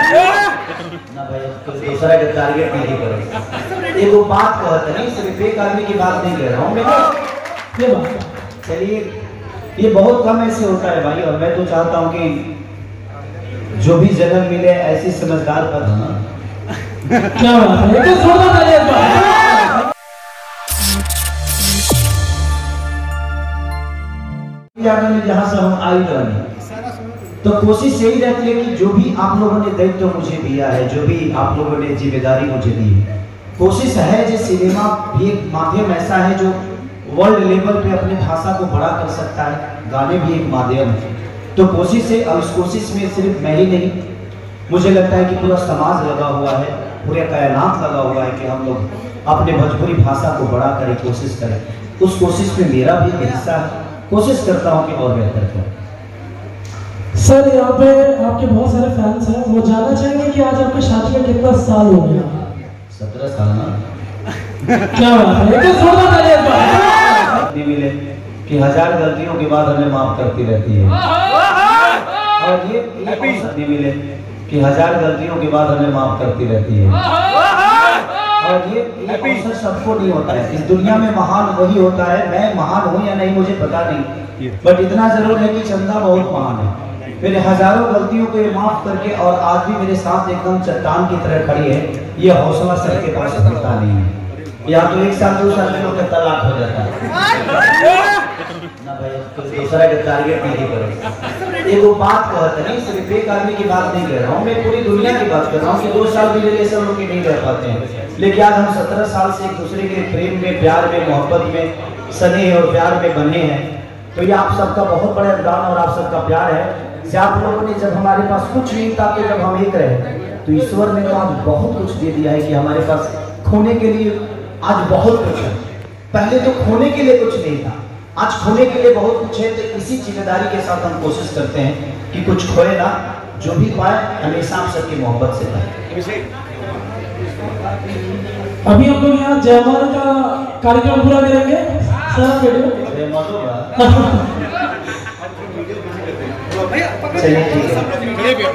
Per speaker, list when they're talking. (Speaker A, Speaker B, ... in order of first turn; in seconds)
Speaker A: 1.1-3.4, 4.0-7.1, 8.6-9.2, 9.8-12.4, 13.8-16.2, 24.8-26.4, 27.4-33.0, 33.6-41.0, 41.5-44.0, 44.7-55.7, 62.9-63.7, 67.2-71.0, 72.4-77.0, 78.4-84.1, 84.6-94.1, 94.7-96.9, 98.8-101.0, 101.6-125.6, 126.1-135.7, 142.9-143.7, 147.2-147.8
Speaker B: 7.7-8.3, 17.3-19.8, 57.1-62.4, 64.9-67.2, 138.7-142.7, 143.8-144.2